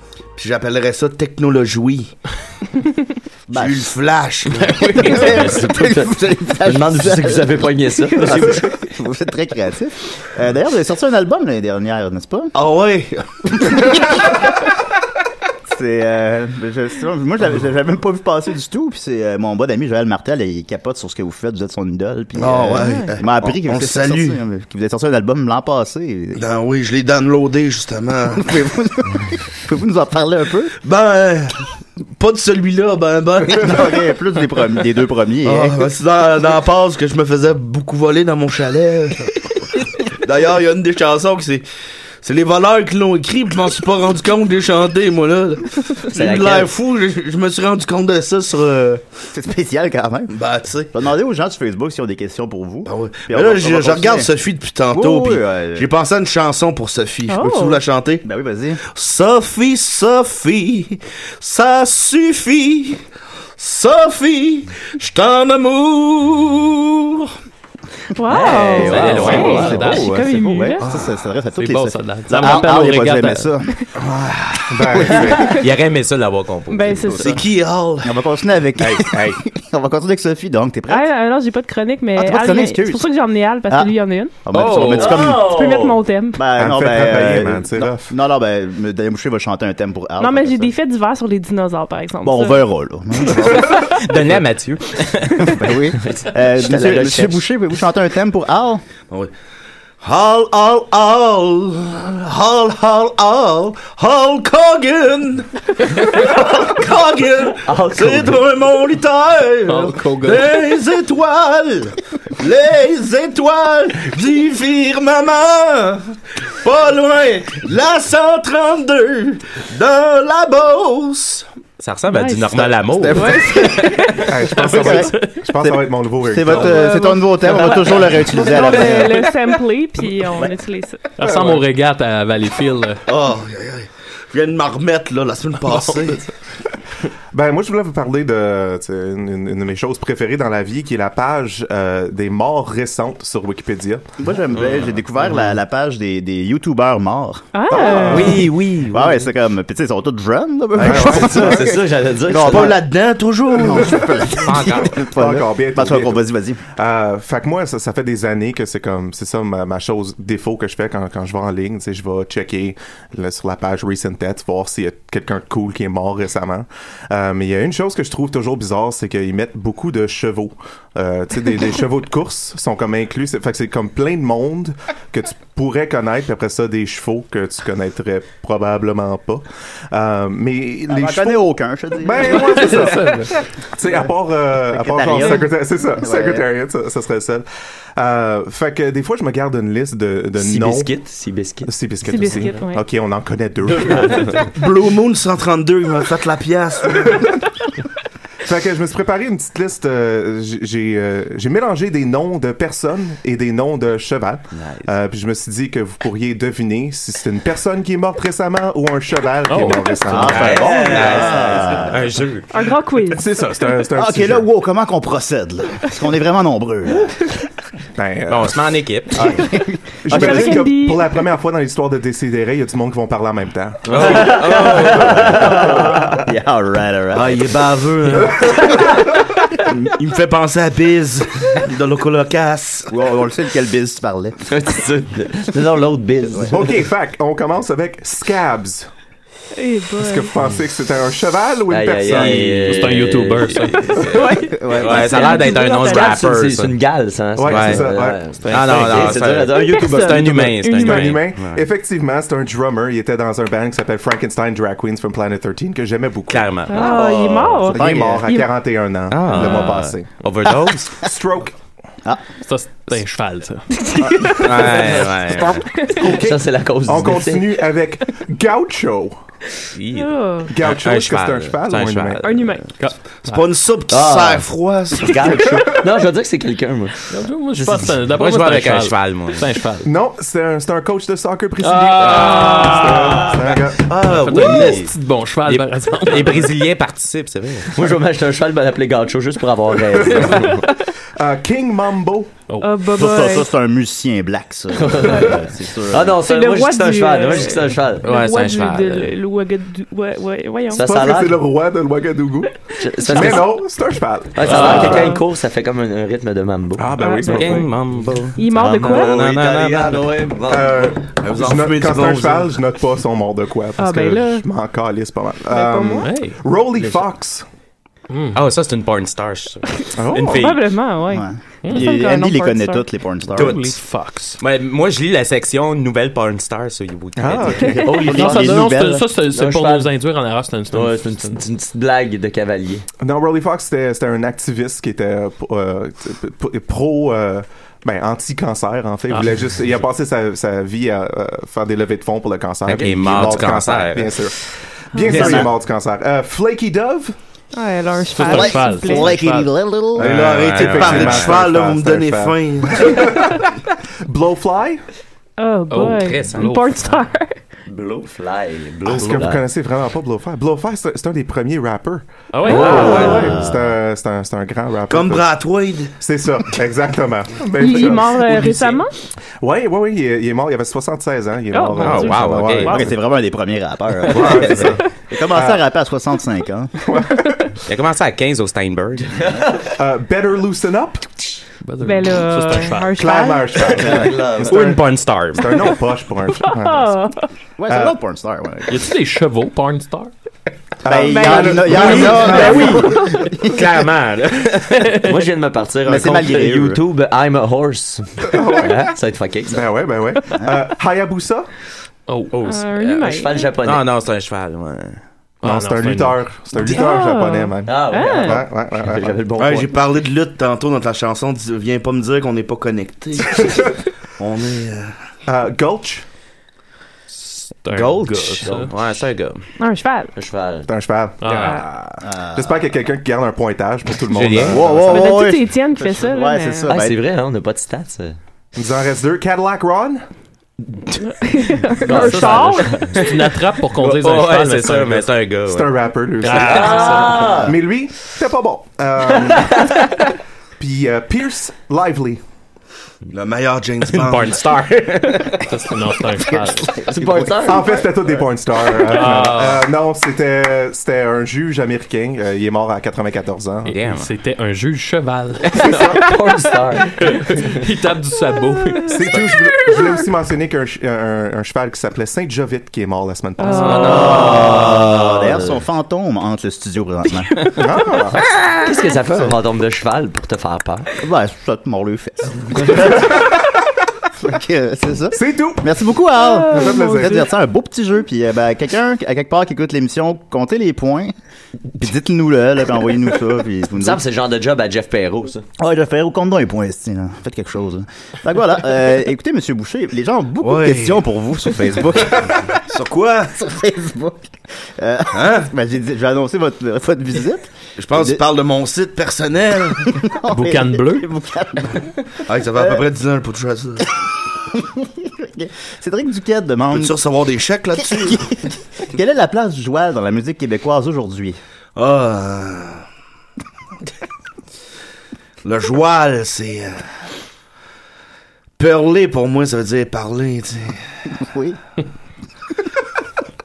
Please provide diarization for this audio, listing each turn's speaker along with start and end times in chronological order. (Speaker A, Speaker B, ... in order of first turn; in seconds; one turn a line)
Speaker A: 0.3-2.1
Speaker A: 3.5-4.8
Speaker B: 3.5-3.9
Speaker C: 4.5-5.5
Speaker B: 4.8-12.5
Speaker D: 5.0-8.8
Speaker A: 12.5-13.8
Speaker B: 13.6-14.3
Speaker B: 15.7-26.4
Speaker A: 22.4-24.4
Speaker E: 22.8-23.1
Speaker A: 26.3-28.4
Speaker B: 28.3-30.7
Speaker A: 30.8-31.6
Speaker A: 32.2-34.0
Speaker B: 33.5-35.8
Speaker A: 35.4-41.6
Speaker A: 42.2-49.0
Speaker D: 46.1-46.7
Speaker B: 49.3-50.4
Speaker A: 50.3-50.9
Speaker B: 50.9-54.3
Speaker A: 52.9-58.2
Speaker B: 54.9-55.9
Speaker E: 57.3-57.8
Speaker B: 58.2-58.8
Speaker A: 58.9-63.0
Speaker A: 63.6-67.3
Speaker E: 68.1-70.8
Speaker D: 68.2-70.0
Speaker B: 68.8-73.7
Speaker C: 68.8-70.4
Speaker C: 71.5-73.5
Speaker A: 74.0-75.2
Speaker F: 74.7-75.6
Speaker E: 75.4-75.7
Speaker G: 75.4-77.2
Speaker E: 76.7-77.4
Speaker A: 77.1-78.2
Speaker B: 78.0-81.1
Speaker G: 78.8-79.4
Speaker E: 80.9-86.5
Speaker B: 82.2-83.0
Speaker B: 83.7-85.5
Speaker C: 84.5-85.1
Speaker D: 84.8-86.0
Speaker B: 86.3-90.7
Speaker F: 86.5-88.1
Speaker E: 90.2-92.6
Speaker B: 92.2-94.4
Speaker E: 93.5-93.9
Speaker G: 93.5-95.6
Speaker B: 95.4-98.8
Speaker D: 96.0-97.4
Speaker A: 100.0-121.5
Speaker D: 107.6-108.4
Speaker C: 109.7-110.5
Speaker G: 121.8-123.4
Speaker E: 122.1-124.3
Speaker B: 122.9-123.9
Speaker C: 123.6-125.4
Speaker F: 124.2-126.9
Speaker B: 124.7-125.1
Speaker B: 126.2-129.3
Speaker E: 126.6-131.1
Speaker C: 131.2-133.0
Speaker F: 131.2-131.6
Speaker A: 133.1-136.3
Speaker F: 137.3-144.1
Speaker B: 144.2-152.8
Speaker G: 144.5-144.9
Speaker E: 147.5-148.5
Speaker F: 147.7-148.5
Speaker D: 148.2-149.1
Speaker F: 150.8-151.7
Speaker D: 150.8-152.8
Speaker A: 152.3-154.2
Speaker B: 153.5-156.6
Speaker G: 154.4-155.0
Speaker F: 154.6-156.2
Speaker F: 156.7-191.1
Speaker B: 180.9-182.9
Speaker C: 182.6-183.3
Speaker B: 184.7-186.4
Speaker D: 190.4-191.7
Speaker F: 191.6-194.5
Speaker E: 192.0-192.8
Speaker D: 193.8-194.4
Speaker A: 194.5-197.2
Speaker F: 197.0-197.3
Speaker F: 198.4-211.7
Speaker C: 209.5-210.2
Speaker B: 210.1-212.2
Speaker D: 210.1-212.0
Speaker G: 210.2-212.5
Speaker E: 212.5-213.4
Speaker F: 213.1-214.5
Speaker B: 213.9-217.1
Speaker F: 217.9-218.6
Speaker G: 218.3-219.5
Speaker B: 219.2-220.6
Speaker F: 220.0-224.2
Speaker E: 220.1-221.2
Speaker G: 223.9-225.2
Speaker A: 223.9-224.9
Speaker D: 224.0-226.2
Speaker F: 225.0-225.4
Speaker B: 225.1-227.4
Speaker A: 227.1-228.7
Speaker A: 229.7-232.9
Speaker B: 232.9-234.4
Speaker D: 234.5-236.8
Speaker F: 236.4-238.9
Speaker E: 239.5-240.3
Speaker F: 240.0-243.1
Speaker D: 241.7-244.1
Speaker G: 242.2-242.6
Speaker C: 242.7-244.0
Speaker E: 243.8-246.3
Speaker G: 243.9-246.8
Speaker B: 244.5-245.3
Speaker D: 245.7-250.5
Speaker F: 247.3-249.2
Speaker G: 247.4-247.9
Speaker G: 248.5-251.7
Speaker E: 249.4-251.3
Speaker F: 250.2-260.2
Speaker G: 256.3-257.2
Speaker E: 256.7-258.6
Speaker B: 257.7-258.3
Speaker G: 259.1-260.9
Speaker E: 259.3-259.7
Speaker F: 260.9-261.5
Speaker C: 262.4-263.7
Speaker E: 263.7-264.4
Speaker F: 264.2-264.5
Speaker G: 264.4-265.6
Speaker E: 265.6-266.0
Speaker F: 265.9-269.2
Speaker D: 266.0-267.5
Speaker G: 269.7-272.4
Speaker E: 269.9-270.5
Speaker F: 270.5-272.4
Speaker E: 272.2-272.7
Speaker C: 272.8-273.4
Speaker A: 273.2-275.4
Speaker D: 273.9-277.0
Speaker C: 277.1-279.9
Speaker G: 278.0-279.5
Speaker F: 279.8-284.8
Speaker C: 281.6-283.4
Speaker E: 282.1-283.2
Speaker G: 283.9-284.9
Speaker C: 284.0-286.5
Speaker G: 285.4-287.7
Speaker D: 287.7-290.6
Speaker F: 289.9-292.4
Speaker E: 292.6-293.5
Speaker B: 292.9-296.2
Speaker D: 294.7-295.4
Speaker D: 295.9-298.1
Speaker E: 296.2-300.9
Speaker G: 298.0-299.1
Speaker D: 300.7-301.4
Speaker F: 300.8-305.1
Speaker D: 302.8-303.6
Speaker E: 303.1-303.4
Speaker D: 304.3-307.6
Speaker C: 304.5-304.9
Speaker E: 304.6-305.2
Speaker F: 306.8-307.7
Speaker E: 306.9-307.6
Speaker G: 307.3-310.1
Speaker E: 308.3-309.3
Speaker D: 308.5-311.0
Speaker F: 310.5-317.4
Speaker A: 311.1-312.6
Speaker E: 313.8-314.4
Speaker E: 315.5-316.1
Speaker C: 316.0-316.4
Speaker C: 318.1-318.4
Speaker G: 318.3-320.7
Speaker E: 319.7-322.9
Speaker F: 319.9-320.4
Speaker B: 321.1-323.6
Speaker C: 323.3-324.4
Speaker G: 323.4-323.7
Speaker G: 324.4-327.9
Speaker F: 327.1-328.1
Speaker D: 327.7-329.9
Speaker B: 327.9-329.1
Speaker C: 328.0-331.4
Speaker D: 330.7-332.9
Speaker F: 333.0-347.1
Speaker G: 342.6-344.2
Speaker E: 344.9-345.3
Speaker B: 345.1-345.5
Speaker E: 347.5-349.2
Speaker C: 348.1-349.5
Speaker B: 348.2-350.1
Speaker F: 349.9-354.8
Speaker A: 350.0-353.0
Speaker G: 350.0-351.4
Speaker E: 355.4-357.4
Speaker C: 355.7-357.0
Speaker G: 355.9-356.5
Speaker D: 357.7-359.4
Speaker F: 358.8-368.9
Speaker C: 362.3-363.2
Speaker E: 362.4-363.4
Speaker D: 362.5-363.3
Speaker B: 363.0-363.7
Speaker A: 364.9-366.0
Speaker E: 367.4-368.9
Speaker F: 369.4-372.9
Speaker E: 371.5-372.9
Speaker G: 371.8-372.7
Speaker B: 372.6-376.7
Speaker F: 374.1-375.6
Speaker G: 374.2-374.7
Speaker F: 376.8-377.6
Speaker G: 377.6-379.3
Speaker F: 379.7-381.4
Speaker C: 381.6-382.9
Speaker E: 381.8-383.9
Speaker F: 382.9-387.1
Speaker B: 383.8-384.3
Speaker D: 383.9-384.6
Speaker G: 384.3-385.6
Speaker E: 386.4-387.3
Speaker B: 387.6-388.9
Speaker F: 387.7-387.9
Speaker C: 388.7-390.1
Speaker F: 390.8-392.9
Speaker B: 390.8-393.7
Speaker E: 390.9-393.1
Speaker C: 391.9-393.1
Speaker G: 393.4-394.8
Speaker C: 394.7-395.1
Speaker D: 394.9-399.7
Speaker B: 395.8-396.8
Speaker F: 398.2-398.9
Speaker F: 399.5-401.5
Speaker C: 402.1-402.3
Speaker G: 402.3-402.9
Speaker E: 402.4-403.6
Speaker D: 402.8-403.9
Speaker G: 403.6-405.0
Speaker C: 405.4-406.3
Speaker F: 405.4-409.2
Speaker E: 406.6-408.4
Speaker D: 407.6-409.8
Speaker A: 409.4-414.9
Speaker F: 415.2-416.0
Speaker C: 417.2-418.7
Speaker D: 417.7-418.8
Speaker G: 418.5-419.5
Speaker E: 419.6-420.1
Speaker D: 420.1-420.7
Speaker F: 420.6-421.6
Speaker C: 421.2-421.6
Speaker G: 421.4-421.9
Speaker B: 422.0-422.7
Speaker F: 422.3-425.2
Speaker G: 424.1-424.8
Speaker B: 424.4-427.0
Speaker E: 424.8-426.7
Speaker D: 426.7-428.2
Speaker F: 428.5-430.0
Speaker E: 431.1-433.0
Speaker C: 431.8-435.1
Speaker D: 431.9-432.5
Speaker G: 433.7-435.8
Speaker F: 435.5-440.0
Speaker C: 436.2-437.4
Speaker D: 436.3-437.6
Speaker F: 440.6-442.2
Speaker A: 443.1-444.4
Speaker G: 443.8-445.5
Speaker C: 445.4-446.7
Speaker B: 446.2-447.0
Speaker D: 446.8-447.8
Speaker F: 447.0-453.7
Speaker C: 448.8-449.6
Speaker C: 453.6-456.1
Speaker G: 453.7-454.1
Speaker D: 455.6-457.5
Speaker F: 455.6-456.0
Speaker C: 457.0-459.3
Speaker F: 458.9-464.3
Speaker E: 463.4-464.4
Speaker G: 463.7-464.5
Speaker D: 463.9-465.5
Speaker B: 463.9-467.3
Speaker F: 467.5-468.3
Speaker D: 468.2-470.9
Speaker B: 471.0-473.3
Speaker F: 472.8-473.4
Speaker B: 474.2-481.1
Speaker F: 475.1-475.7
Speaker E: 476.2-477.2
Speaker F: 476.4-477.2
Speaker B: 481.7-484.0
Speaker D: 483.8-485.4
Speaker B: 485.6-492.6
Speaker A: 490.4-491.0
Speaker A: 492.7-493.3
Speaker B: 493.3-498.2
Speaker A: 495.1-495.5
Speaker A: 497.8-500.0
Speaker B: 499.9-502.0
Speaker C: 500.3-501.1
Speaker A: 502.2-503.9
Speaker B: 502.6-502.8
Speaker B: 504.5-506.9
Speaker A: 506.7-508.3
Speaker B: 507.8-511.4
Speaker A: 511.8-512.8
Speaker A: 515.4-516.9
Speaker A: 518.6-520.8
Speaker B: 521.1-521.6